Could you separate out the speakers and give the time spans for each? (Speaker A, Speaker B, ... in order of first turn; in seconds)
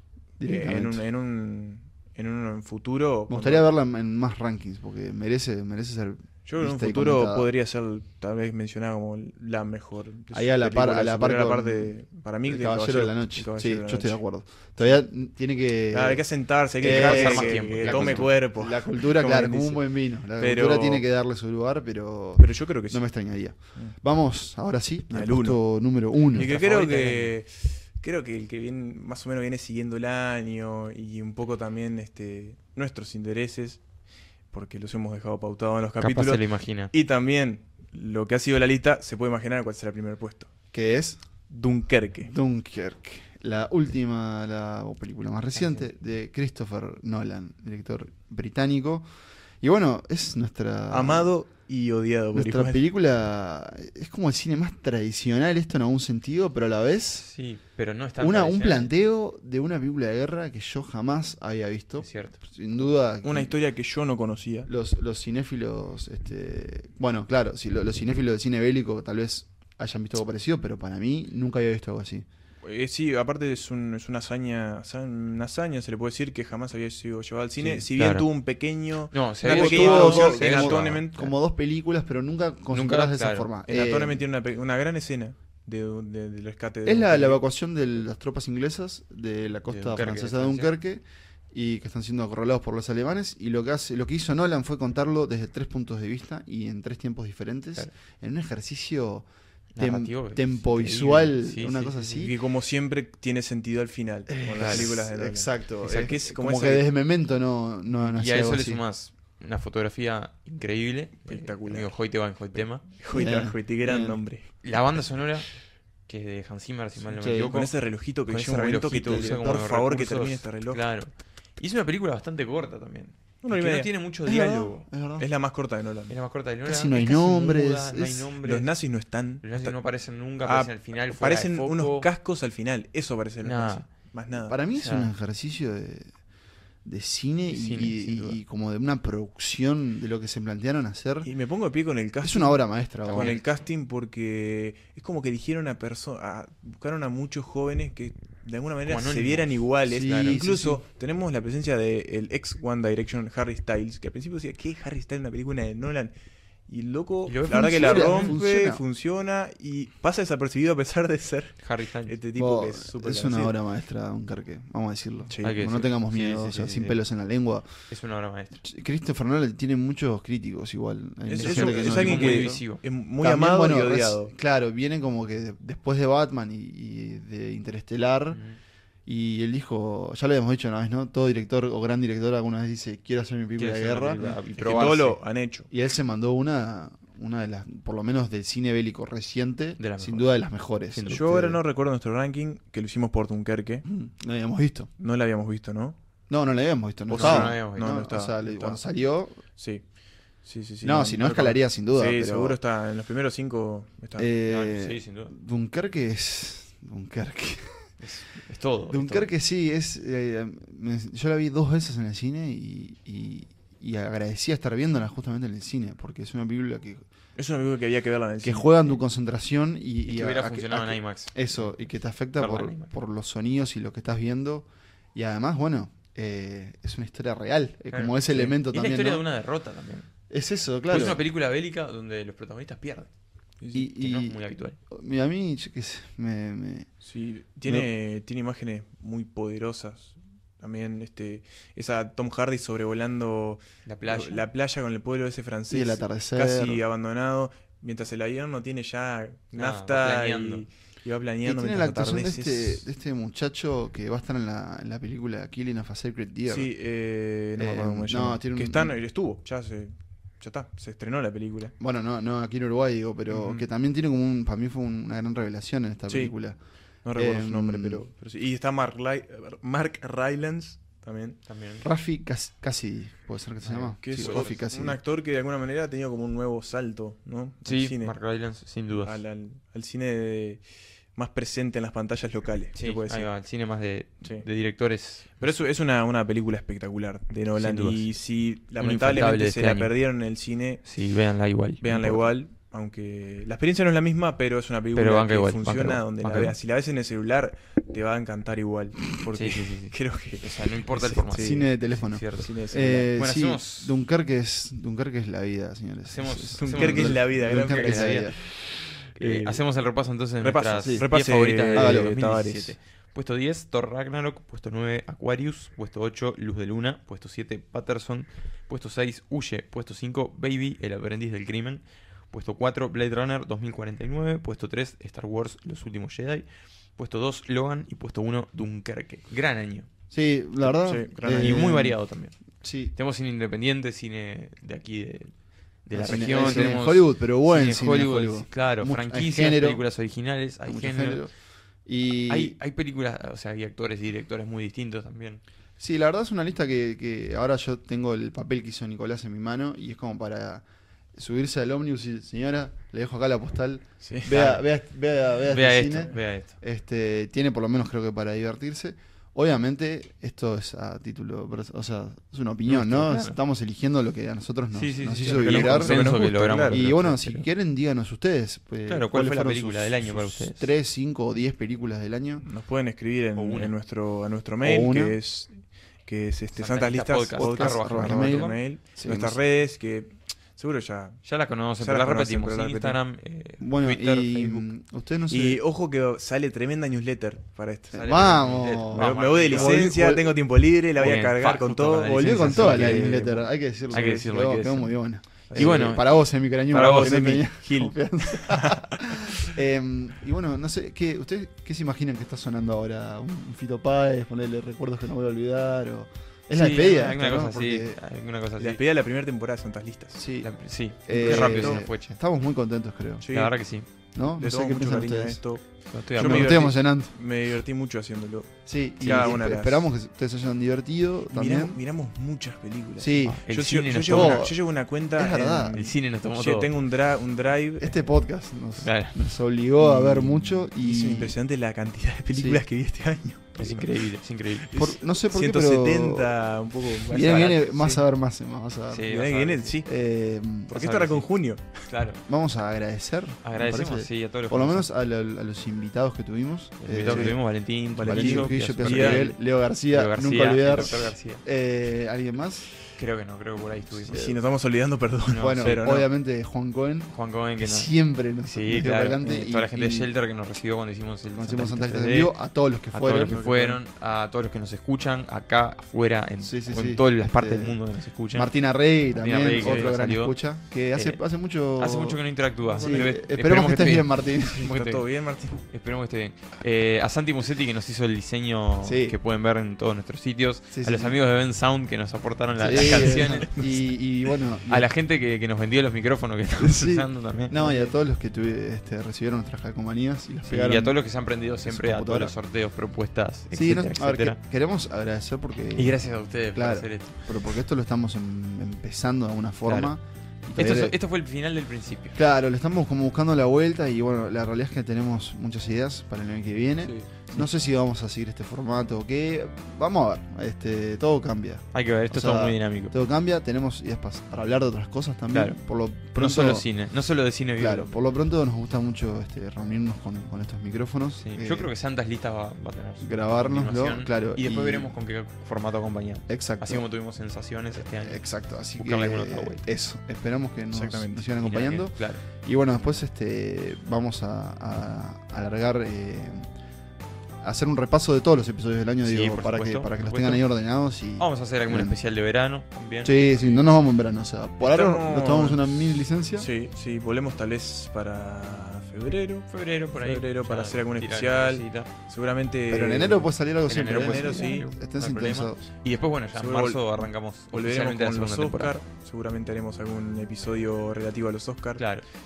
Speaker A: 0.4-1.1, 3.3-7.5, 10.3-16.3, 16.8-26.5, 40.7-41.2, 42.2-49.1, 49.6-51.3, 52.3-57.3, 58.2-63.5, 64.7-72.3, 79.4-84.2, 86.8-99.3, 99.8-102.3, 104.3-108.8, 113.1-114.2, 117.2-117.5, 119.0-119.6, 124.3-125.3, 126.7-128.3, 134.4-136.1, 136.8-141.3, 142.2-143.4, 149.8-150.8, 157.7-158.8, 162.4-167.7, 168.6-172.7, 173.2-178.4, 179.1-185.1, 185.7-191.6, 193.9-194.9, 196.3-199.4, 200.8-202.6, 204.2-207.9, 208.9-217.0, 218.4-229.2, 230.3-231.2, 233.7-236.9, 245.7-246.8, 251.4-256.7, 257.6-259.0, 261.8-266.6, 267.2-268.1, 271.8-275.0, 301.3-308.4, 310.8-311.1, 311.7-312.1, 330.1-332.0, 332.6-332.9, 335.9-339.8, 340.6-341.3, 341.9-342.6, 345.8-350.6, 351.1-372.4, 374.6-375.2, 377.4-379.4, 383.6-385.6, 387.9-390.4, 392.2-408.0, 410.1-410.5, 411.1-413.3, 414.1-415.4, 416.2-417.1, 418.7-421.8, 423.0-423.4, 424.1-424.6, 425.1-425.8, 427.8-431.4, 432.3-432.6, 434.7-436.3, 437.1-439.1, 439.9-440.9, 442.3-447.4, 448.0-452.7, 454.0-454.4, 455.3-460.1, 461.3-463.4, 466.4-467.8, 468.3-472.2, 472.8-474.7, 478.8-479.2, 480.7-481.2, 482.6-484.9, 486.6-491.0, 491.7-492.3, 493.5-500.9, 502.1-516.7, 517.6-521.7, 523.0-525.0, 526.3-526.9, 527.8-536.5, 537.4-542.0, 543.0-546.5, 552.7-555.6
Speaker B: 0.4-3.7, 6.5-14.9, 15.9-21.1, 22.4-23.1, 25.1-25.6, 26.3-33.8, 34.5-40.5, 41.5-42.3, 50.9-52.8, 63.2-64.7, 72.6-81.3, 83.7-87.4, 102.2-106.9, 111.3-111.9, 112.9-114.5, 117.4-120.8, 123.4-123.9, 125.2-126.1, 128.4-129.8, 130.4-134.6, 141.2-156.1, 156.7-163.6, 165.3-165.6, 171.3-174.3, 184.2-185.7, 191.1-193.9, 195.0-196.0, 197.1-198.8, 199.6-199.9, 200.4-204.3, 217.4-219.0, 228.3-228.6, 233.6-233.9, 237.1-252.9, 256.5-261.8, 263.3-263.7, 266.1-266.3, 267.0-271.4, 274.0-278.1, 279.0-280.6, 281.1-283.3, 285.4-290.8, 291.8-301.6, 302.4-303.1, 306.6-308.5, 309.2-309.6, 310.4-312.8, 330.8-331.8, 354.0-354.6, 365.3-366.8, 372.4-381.2, 381.8-383.0, 385.3-388.3, 388.9-393.3, 394.0-394.3, 395.5-396.0, 396.7-398.9, 408.6-410.2, 411.1-411.8, 413.2-413.6, 414.2-419.9, 421.3-428.0, 429.8-434.0, 434.7-438.0, 439.1-439.9, 440.7-441.9, 447.0-447.4, 448.0-449.3, 450.8-451.1, 454.1-456.1, 463.1-463.8, 469.6-469.9, 472.7-473.1, 474.6-475.6, 482.7-483.8, 530.7-531.3, 544.6-545.6, 546.4-554.7, 556.4-561.8
Speaker C: 16.8-18.3, 26.4-27.3, 36.0-36.9, 45.5-45.9, 57.2-58.9, 62.0-62.4, 77.6-78.3, 79.1-81.0, 82.7-83.5, 89.7-90.7, 99.8-102.2, 104.6-104.9, 108.0-112.9, 114.6-115.5, 116.1-117.8, 118.3-124.9, 126.1-128.7, 129.4-132.1, 133.4-133.9, 134.8-135.1, 137.5-138.1, 143.1-143.4, 148.8-149.5, 150.0-150.4, 157.3-158.4, 161.6-162.2, 165.4-167.0, 167.9-168.6, 171.4-172.8, 178.3-178.6, 183.6-185.2, 189.8-190.3, 190.9-191.3, 197.1-198.1, 204.4-205.3, 208.0-209.3, 220.1-221.3, 222.4-222.9, 227.9-230.1, 230.9-233.1, 233.9-234.8, 243.9-244.5, 249.6-250.7, 271.5-271.9, 273.6-274.5, 277.6-279.2, 282.8-285.4, 287.6-288.1, 288.8-289.9, 290.8-292.3, 294.9-296.6, 299.3-302.5, 303.1-303.9, 306.1-308.3, 309.2-329.9, 330.6-332.4, 332.9-335.3, 335.9-341.2, 342.3-345.4, 354.3-354.6, 355.5-356.5, 362.7-363.4, 364.7-367.4, 368.9-370.7, 373.4-373.7, 376.6-378.6, 381.2-384.7, 387.9-390.0, 391.0-394.9, 395.5-396.2, 396.7-397.3, 406.5-408.8, 410.4-412.2, 413.3-413.9, 415.9-416.7, 419.0-419.4, 423.2-424.5, 425.7-426.7, 428.8-429.1, 433.6-434.7, 437.2-437.5, 438.9-439.8, 440.8-441.3, 441.9-442.2, 443.4-444.9, 446.8-449.4, 449.9-451.4, 452.9-454.2, 455.3-455.8, 457.1-457.9, 458.4-462.4, 462.9-468.5, 469.1-470.4, 471.8-475.0, 475.7-483.5, 484.7-487.9, 490.5-494.4, 495.8-497.4, 499.6-499.9, 500.6-502.2, 506.9-507.4, 511.7-513.0, 515.3-515.6, 516.2-518.0, 521.2-528.2, 528.8-529.6, 531.4-532.2, 539.0-540.4, 541.2-543.7, 549.5-551.9, 553.7-558.8, 561.8-562.0